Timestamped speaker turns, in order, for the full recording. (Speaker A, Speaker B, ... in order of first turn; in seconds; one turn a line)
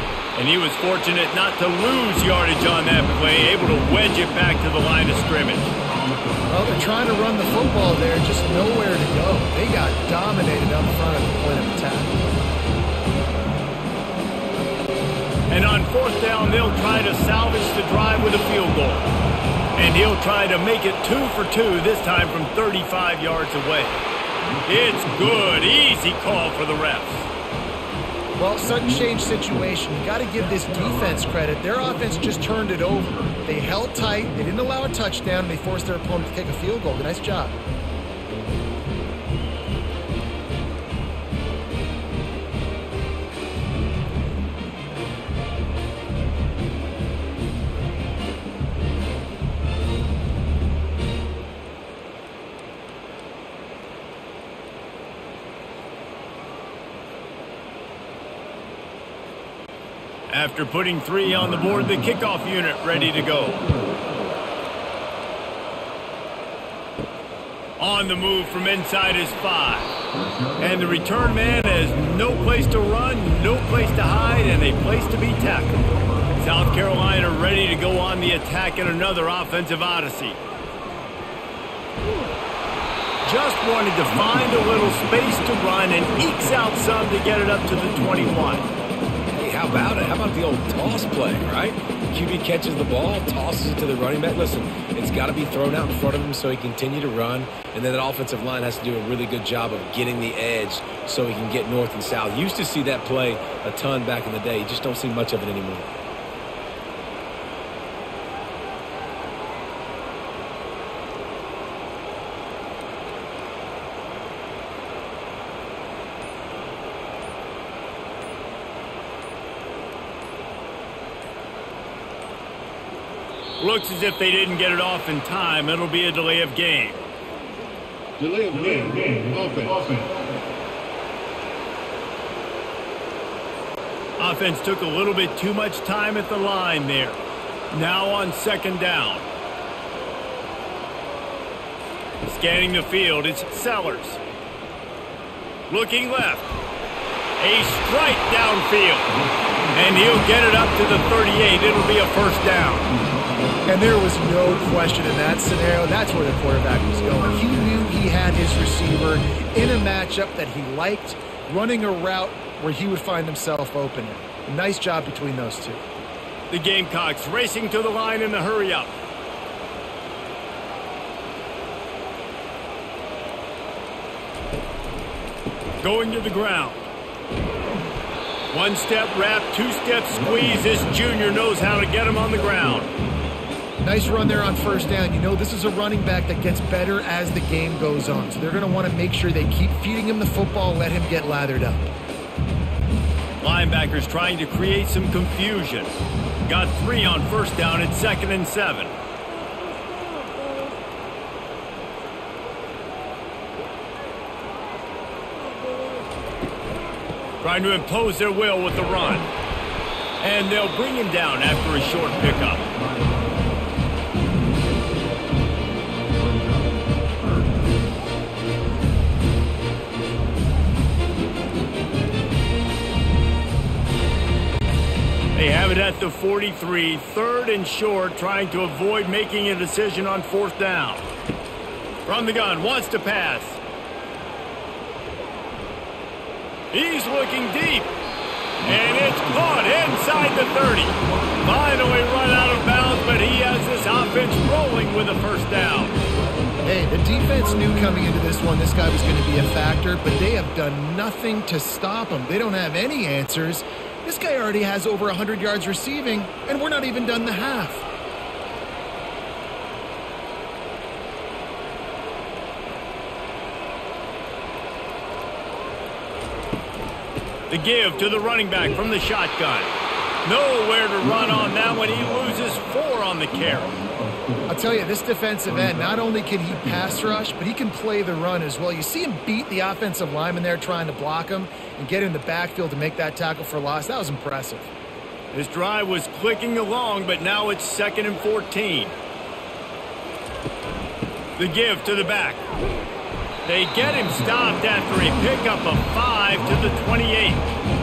Speaker A: 0.3-5.7
Speaker B: 6.5-12.2
Speaker A: 15.5-19.1
Speaker A: 19.8-24.0
Speaker A: 24.6-27.3
Speaker B: 28.4-37.5
Speaker A: 60.3-63.6
Speaker A: 67.8-69.9
Speaker A: 70.6-75.8
Speaker A: 76.4-80.4
Speaker A: 83.2-88.7
Speaker C: 89.3-106.0
Speaker A: 123.6-127.0
Speaker A: 134.2-137.2
Speaker A: 137.7-139.3
Speaker A: 142.2-144.2
Speaker A: 145.7-146.5
Speaker A: 147.4-149.1
Speaker A: 149.7-152.9
Speaker B: 153.7-165.8
Speaker A: 166.5-168.9
Speaker A: 175.8-176.9
Speaker A: 178.5-182.9
Speaker B: 183.8-191.9
Speaker A: 193.4-195.9
Speaker A: 196.4-198.9
Speaker A: 207.4-209.3
Speaker A: 210.2-212.6
Speaker A: 225.3-231.0
Speaker A: 232.1-233.6
Speaker A: 236.7-237.9
Speaker A: 238.6-245.9
Speaker B: 246.6-257.9
Speaker A: 267.5-273.8
Speaker B: 274.5-284.7
Speaker A: 285.3-288.9
Speaker A: 291.4-292.4
Speaker A: 293.4-297.4